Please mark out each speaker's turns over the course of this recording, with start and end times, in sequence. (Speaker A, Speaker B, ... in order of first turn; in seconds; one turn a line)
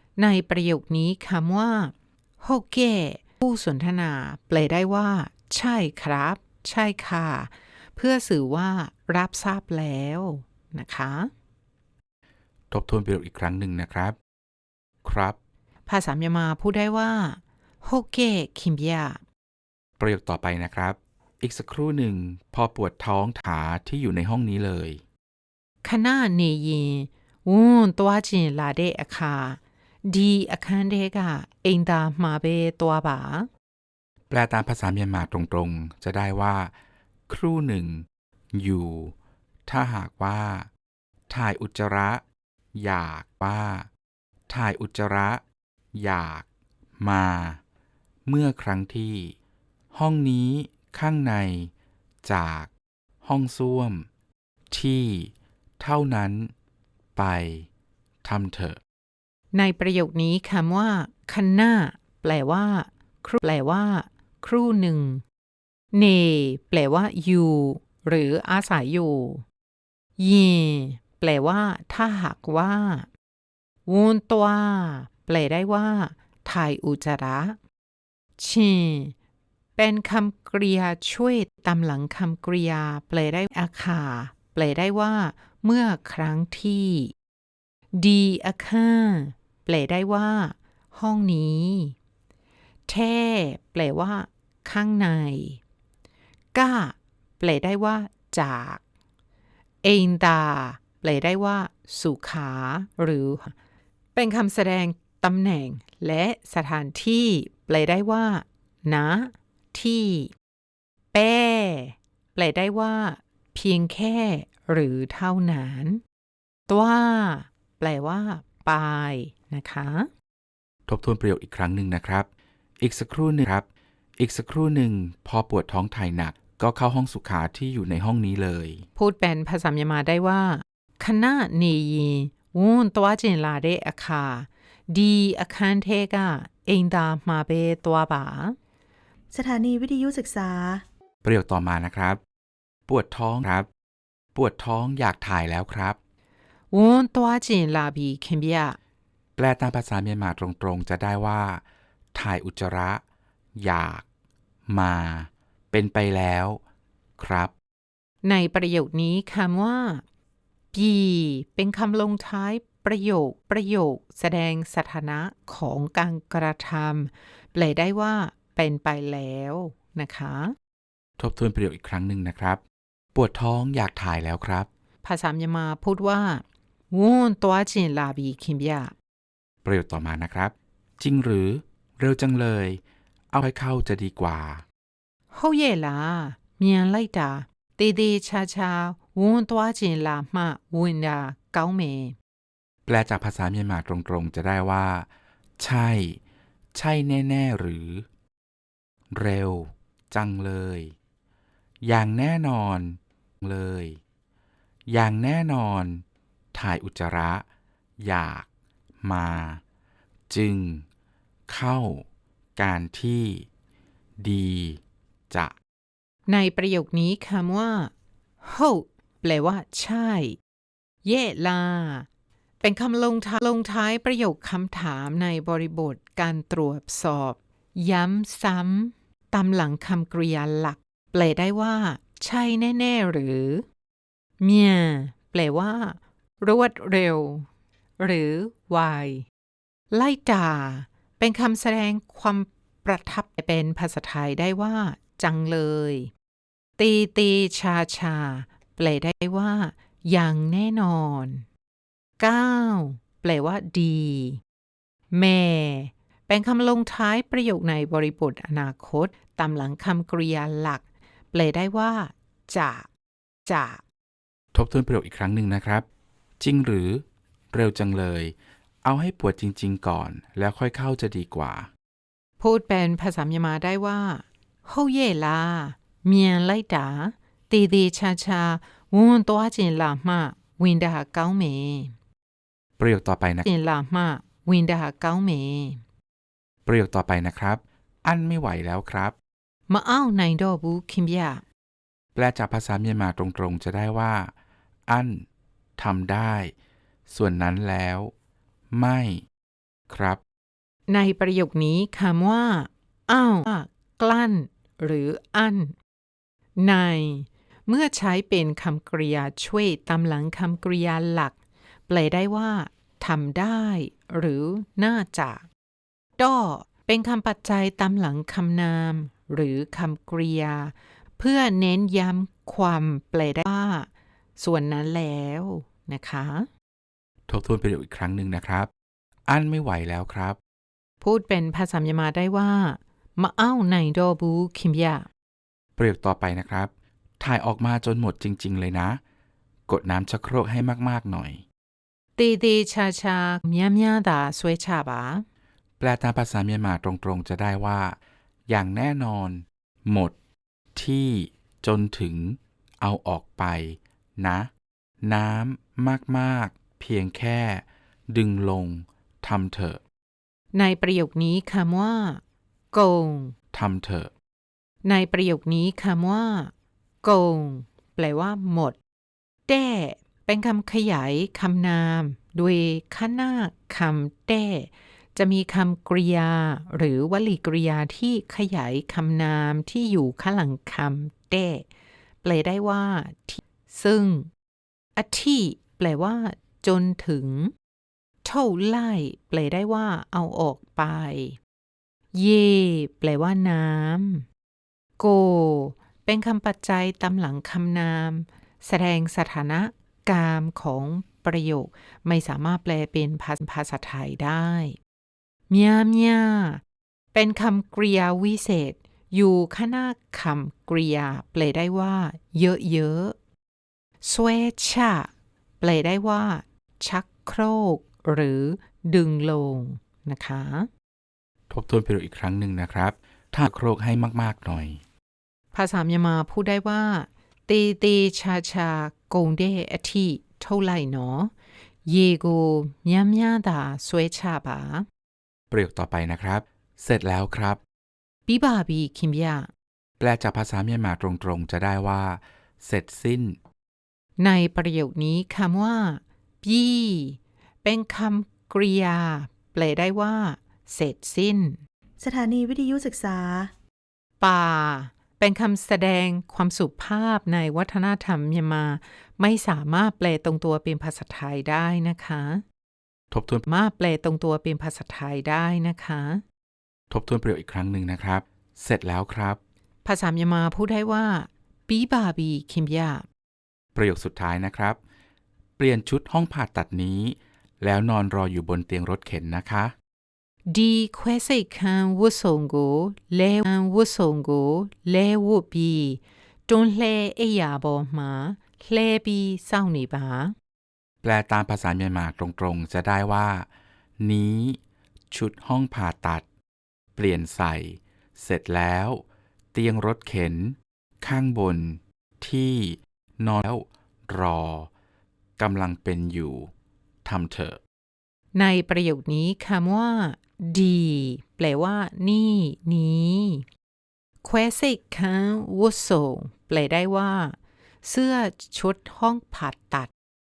Speaker A: 0.2-11.3
Speaker B: 12.7-14.2
Speaker B: 15.0-15.4
Speaker A: 15.9-19.2
Speaker B: 20.0-25.0
Speaker A: 25.8-33.5
Speaker B: 34.3-36.7
Speaker B: 37.3-39.1
Speaker B: 39.6-40.7
Speaker B: 41.3-42.2
Speaker B: 42.7-43.9
Speaker B: 44.5-45.4
Speaker B: 45.9-46.5
Speaker B: 47.0-47.6
Speaker B: 48.2-49.4
Speaker B: 49.9-51.7
Speaker B: 52.2-52.7
Speaker B: 53.2-54.1
Speaker B: 54.7-56.5
Speaker B: 57.1-57.7
Speaker B: 58.2-58.8
Speaker A: 59.5-65.2
Speaker A: 65.9-69.4
Speaker A: 70.2-73.1
Speaker A: 73.8-77.6
Speaker A: 78.4-79.1
Speaker A: 79.8-87.1
Speaker A: 87.9-92.0
Speaker A: 92.9-95.6
Speaker A: 96.5-98.8
Speaker A: 99.8-103.5
Speaker A: 104.1-110.3
Speaker A: 111.1-116.0
Speaker A: 116.7-120.1
Speaker B: 120.9-122.3
Speaker B: 122.8-123.7
Speaker B: 124.2-128.9
Speaker A: 128.9-138.6
Speaker C: 139.3-140.8
Speaker B: 141.2-142.2
Speaker B: 142.9-143.7
Speaker B: 144.3-146.0
Speaker A: 146.7-148.8
Speaker B: 149.4-151.6
Speaker B: 152.1-153.0
Speaker B: 153.6-154.0
Speaker B: 154.7-156.6
Speaker B: 157.2-157.5
Speaker A: 158.2-160.0
Speaker A: 160.7-170.5
Speaker B: 171.2-172.6
Speaker B: 173.1-174.7
Speaker A: 175.0-178.9
Speaker B: 179.6-182.8
Speaker B: 183.3-184.6
Speaker A: 185.3-192.2
Speaker B: 192.8-195.1
Speaker B: 195.6-196.2
Speaker B: 196.7-198.1
Speaker B: 199.1-200.9
Speaker B: 201.8-204.0
Speaker B: 204.9-207.4
Speaker B: 208.0-208.5
Speaker B: 209.0-209.6
Speaker B: 210.3-210.8
Speaker B: 211.5-212.0
Speaker B: 212.6-213.5
Speaker B: 214.2-215.5
Speaker A: 216.3-220.4
Speaker A: 221.0-222.1
Speaker A: 222.6-233.7
Speaker A: 234.4-237.5
Speaker A: 238.0-239.3
Speaker A: 239.9-246.1
Speaker A: 246.8-251.4
Speaker A: 252.2-254.4
Speaker A: 255.1-262.9
Speaker A: 263.4-263.8
Speaker B: 264.5-265.9
Speaker B: 266.4-271.7
Speaker A: 272.4-281.9
Speaker B: 282.8-283.5
Speaker A: 283.4-285.8
Speaker B: 286.6-289.1
Speaker A: 289.7-291.4
Speaker B: 292.1-294.3
Speaker B: 294.9-295.2
Speaker B: 295.8-296.5
Speaker B: 297.1-298.1
Speaker B: 298.7-299.2
Speaker B: 299.9-300.2
Speaker A: 300.9-305.8
Speaker A: 306.6-311.3
Speaker A: 311.9-315.5
Speaker A: 316.2-326.5
Speaker B: 327.3-328.7
Speaker B: 329.3-330.4
Speaker A: 331.0-335.1
Speaker B: 335.8-339.0
Speaker B: 339.7-341.4
Speaker A: 342.2-345.2
Speaker B: 345.8-350.1
Speaker B: 350.7-354.5
Speaker B: 355.0-359.8
Speaker A: 360.5-362.2
Speaker A: 362.7-363.3
Speaker B: 363.5-364.1
Speaker A: 364.8-366.5
Speaker A: 367.0-368.8
Speaker A: 369.5-381.6
Speaker A: 382.2-384.3
Speaker A: 384.9-387.5
Speaker A: 388.2-391.4
Speaker A: 392.1-394.2
Speaker A: 395.0-404.8
Speaker A: 405.5-406.6
Speaker A: 407.1-413.1
Speaker A: 414.0-415.1
Speaker A: 415.6-420.7
Speaker B: 421.5-424.8
Speaker A: 425.5-431.3
Speaker A: 431.9-434.9
Speaker B: 435.5-437.6
Speaker A: 438.3-439.5
Speaker B: 440.0-443.4
Speaker A: 444.2-451.6
Speaker C: 452.0-453.5
Speaker A: 454.2-462.4
Speaker B: 463.1-463.4
Speaker A: 463.5-466.2
Speaker B: 466.9-469.4
Speaker A: 469.8-473.0
Speaker B: 473.7-474.8
Speaker B: 475.6-479.7
Speaker A: 480.5-490.3
Speaker B: 491.0-493.5
Speaker B: 494.0-494.6
Speaker B: 495.1-496.2
Speaker B: 496.9-504.7
Speaker B: 505.4-506.5
Speaker B: 507.0-507.6
Speaker A: 508.3-513.5
Speaker A: 514.2-519.9